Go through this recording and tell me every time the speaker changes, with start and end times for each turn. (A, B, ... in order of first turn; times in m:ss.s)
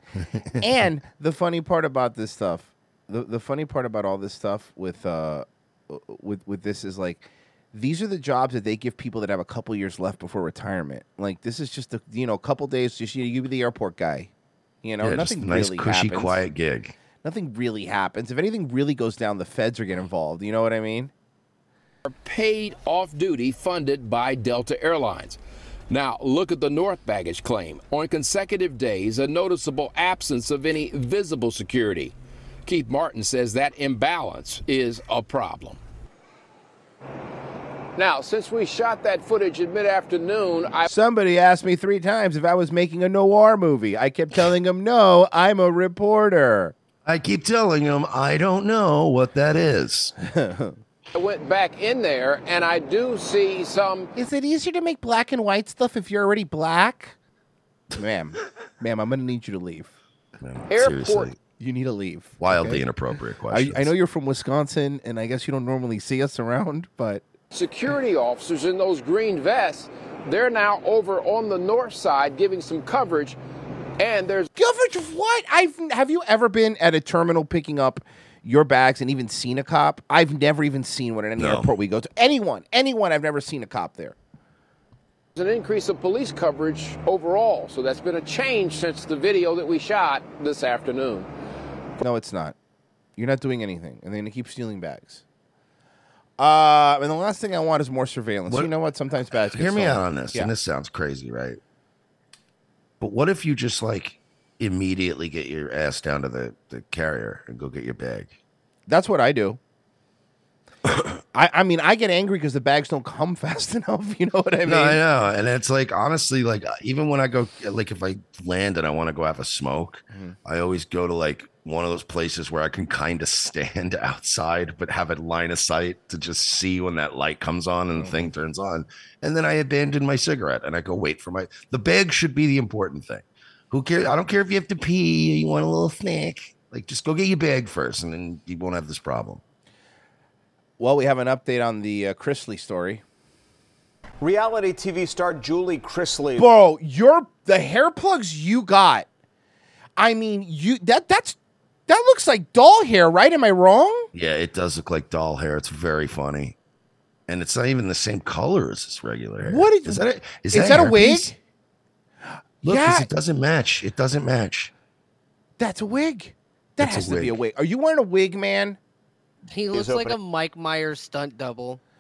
0:00.3-0:00.7 A
0:00.6-0:14.3 B
0:14.8-0:16.4 B
0:15.0-0:16.9 A
0:17.2-0:21.1 B
0:22.0-0:25.4 C
0:25.9-0:32.1 C
0:32.6-0:35.8 C
0:38.0-0:40.9 C
0:40.8-0:46.7 B
0:47.0-0:50.1 A
0:50.2-0:50.8 B
0:51.1-0:54.1 C
0:54.2-0:57.1 B
0:58.0-0:59.9 B
1:00.4-1:01.4 A
1:00.7-1:01.3 C
1:01.5-1:02.8 B
1:02.4-1:03.9 A
1:03.5-1:07.2 B
1:07.5-1:13.4 C
1:14.0-1:14.5 C
1:14.6-1:24.1 B
1:21.4-1:21.7 A
1:25.4-1:31.3 C
1:32.0-1:32.5 B
1:33.2-1:35.2 B
1:36.4-1:40.5 B
1:39.5-1:41.6 A
1:43.0-1:48.3 A
1:48.9-1:49.6 B
1:51.3-1:55.0 B
1:54.6-2:19.4 A
2:00.1-2:00.4 B
2:07.9-2:08.3 B
2:20.8-2:23.0 B
2:24.2-2:26.5 D
2:26.4-2:29.0 B
2:30.0-2:31.4 B
2:31.9-2:34.1 B
2:34.1-2:36.6 A
2:37.3-2:41.3 A
2:39.4-2:41.4 B
2:42.6-2:43.1 B
2:42.6-2:44.7 A
2:45.6-2:48.8 B
2:46.8-2:47.4 A
2:49.5-2:51.8 E
2:49.7-2:50.2 D